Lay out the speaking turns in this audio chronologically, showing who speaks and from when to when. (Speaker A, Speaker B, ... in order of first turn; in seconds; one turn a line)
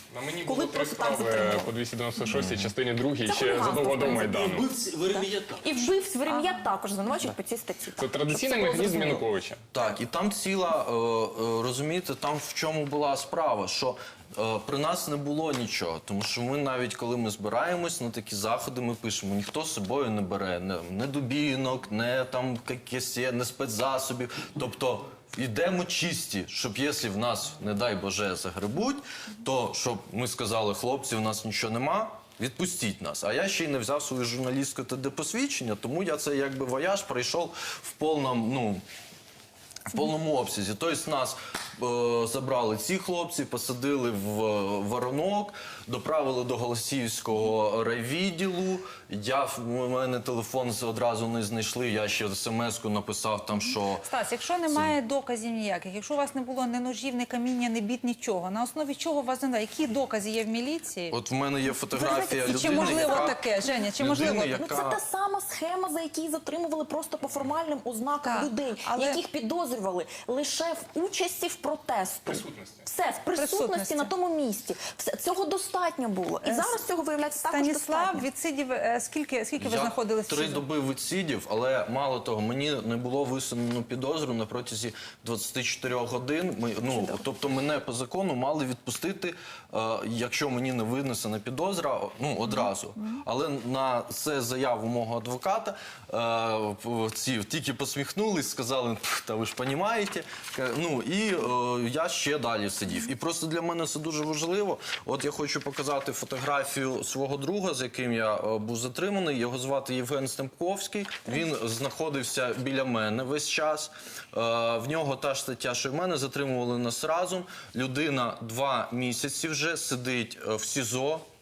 Speaker A: 0.1-4.7
Speaker B: 0.4-1.7
Speaker C: 2.4-2.7
Speaker B: 3.3-4.5
Speaker D: 3.9-5.9
Speaker B: 5.1-9.3
Speaker A: 8.0-9.7
Speaker C: 9.7-38.8
Speaker C: 39.9-54.1
Speaker E: 54.0-61.2
Speaker C: 54.7-55.0
Speaker C: 61.1-63.4
Speaker B: 61.9-63.4
Speaker E: 62.4-64.6
Speaker C: 64.0-65.0
Speaker B: 64.2-78.3
Speaker E: 68.2-69.2
Speaker A: 72.3-72.8
Speaker E: 73.3-74.1
Speaker E: 76.4-76.8
Speaker E: 77.3-80.7
Speaker C: 79.6-121.3
Speaker B: 86.9-87.2